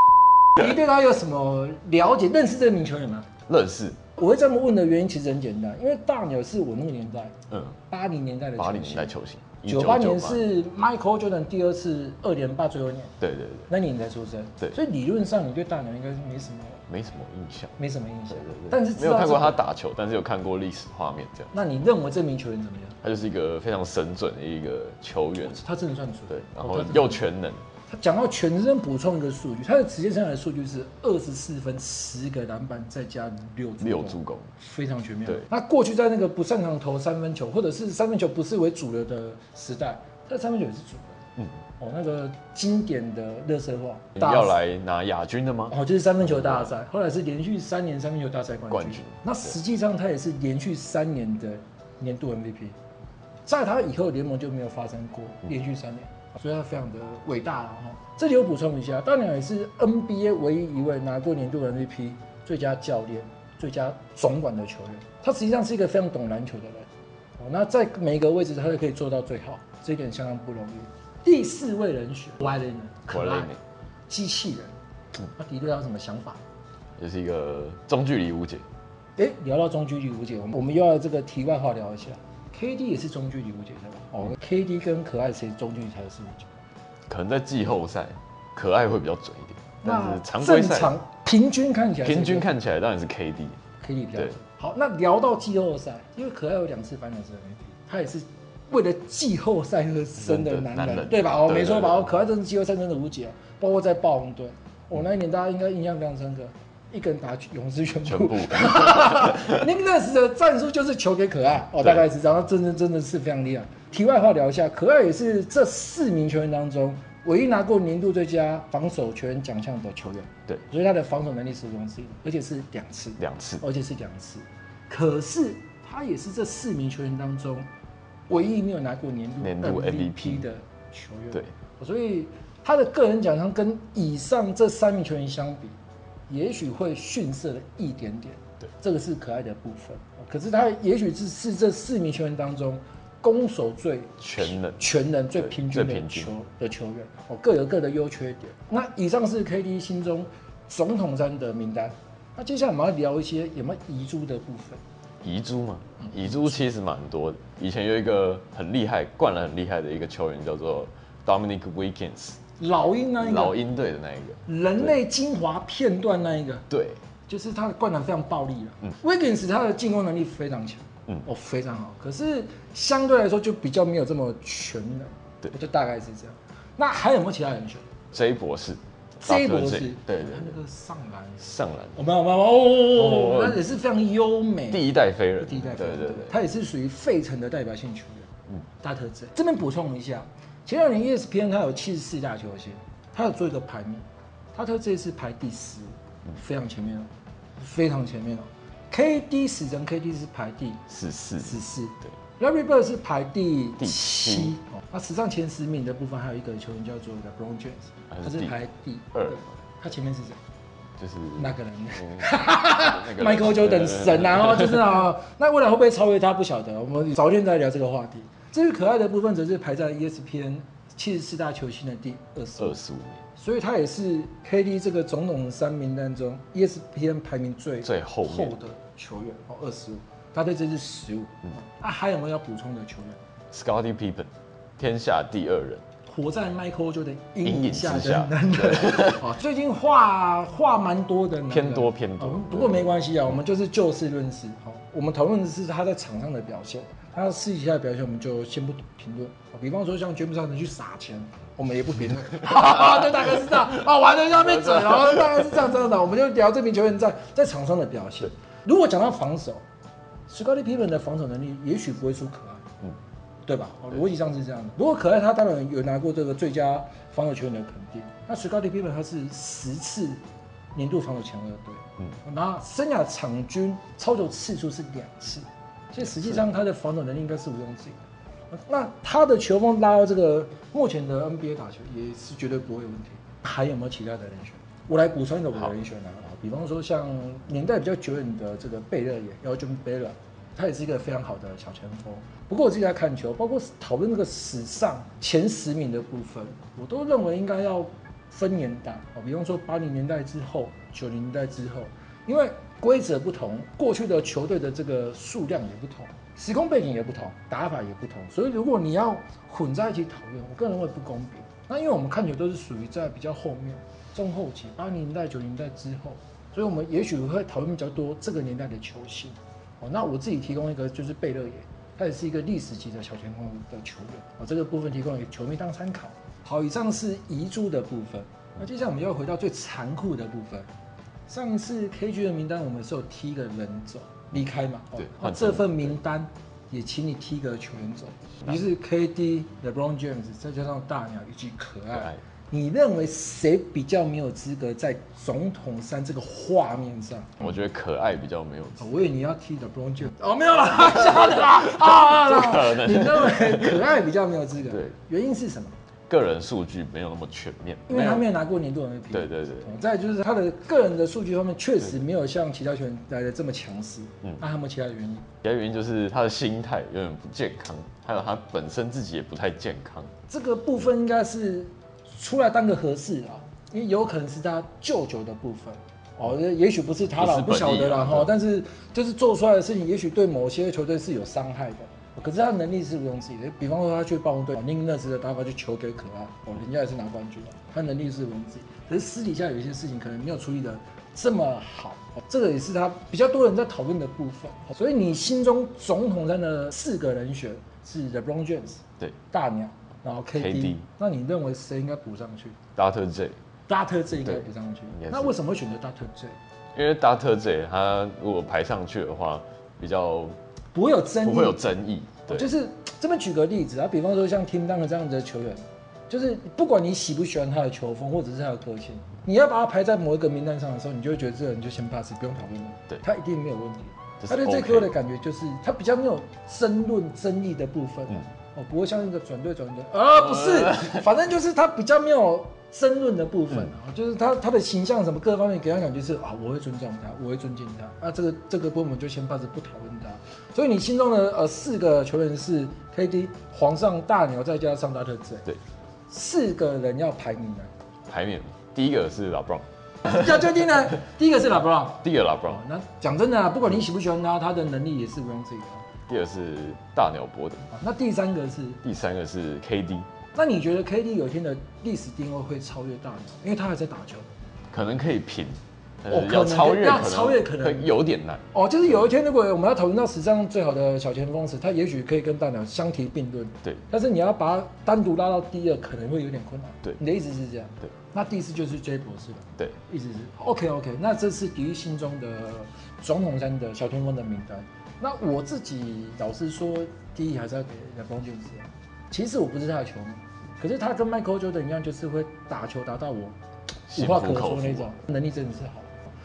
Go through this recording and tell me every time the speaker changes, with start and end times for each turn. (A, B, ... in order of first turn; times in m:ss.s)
0:00.6-0:03.3 A
0:03.5-0:04.0 B
0:04.2-0:07.4 A
0:07.5-0:07.8 B
0:07.9-0:13.2 A
0:08.6-0:10.5 B
0:13.2-0:13.7 B
0:13.7-0:16.9 A
0:16.9-0:17.8 B
0:17.8-0:19.6 A
0:18.3-0:21.5 B
0:21.5-0:23.0 A
0:23.0-0:25.6 B
0:25.4-0:27.2 A
0:26.3-0:27.6 B
0:27.9-0:41.2 A
0:33.8-0:34.5 B
0:41.8-0:44.6 A
0:44.2-0:45.8 B
0:45.7-0:52.8 A
0:46.4-0:46.7 B
0:48.7-0:49.2 B
0:53.5-1:06.9 A
1:07.4-1:13.6 A
1:13.1-1:13.6 B
1:14.1-1:16.4 A
1:17.0-1:18.6 B
1:19.2-1:26.5 A
1:27.1-1:31.0 B
1:29.8-1:32.5 A
1:32.0-1:33.6 B
1:33.8-2:07.7 A
1:40.2-1:42.1 B
1:48.0-1:49.6 B
2:03.2-2:03.6 B
2:08.3-2:15.8 A
2:09.4-2:10.5 B
2:16.3-2:34.8 A
2:24.2-2:24.8 B
2:25.4-2:26.3 B
2:35.2-2:42.4 B
2:42.6-2:43.6 A
2:43.2-2:44.9 B
2:44.5-2:46.7 A
2:46.7-2:47.0 B
2:47.3-2:57.9 A
2:58.1-3:00.6 B
2:59.2-3:01.4 A
3:01.4-3:02.0 B
3:02.0-3:04.9 A
3:02.9-3:03.7 B
3:04.7-3:06.4 B
3:05.4-3:30.4 A
3:20.9-3:21.6 B
3:23.8-3:24.6 B
3:28.1-3:28.6 B
3:29.2-3:29.5 B
3:31.0-3:34.9 B
3:31.4-3:42.8 A
3:42.6-3:43.2 B
3:43.4-3:53.2 A
3:47.8-3:48.6 B
3:53.5-3:55.8 B
3:56.1-4:19.6 A
3:57.4-3:59.2 B
4:01.5-4:03.0 B
4:20.3-4:22.7 A
4:23.5-4:30.2 A
4:30.8-5:30.7 A
5:31.3-5:47.5 A
5:35.1-5:35.8 B
5:47.4-5:49.1 B
5:48.8-5:55.8 A
5:51.2-5:53.9 B
5:56.1-5:58.3 B
5:57.9-6:05.3 A
5:59.1-5:59.7 B
6:05.4-6:10.1 B
6:10.3-6:42.6 A
6:17.1-6:18.3 B
6:40.4-6:40.8 B
6:42.8-6:43.4 B
6:43.7-6:46.4 A
6:44.2-6:45.3 B
6:46.7-6:50.4 B
6:50.7-6:51.6 A
6:51.2-6:52.5 B
6:52.3-7:25.6 A
7:04.2-7:04.9 B
7:26.1-7:27.7 A
7:28.1-7:29.6 B
7:30.0-7:35.9 A
7:32.0-7:32.6 B
7:36.1-7:37.7 B
7:37.7-7:38.8 A
7:38.8-7:40.1 B
7:40.3-7:44.3 A
7:44.7-7:48.5 B
7:46.1-7:48.0 A
7:48.5-8:13.4 A
8:13.9-8:16.0 A
8:13.9-8:14.9 B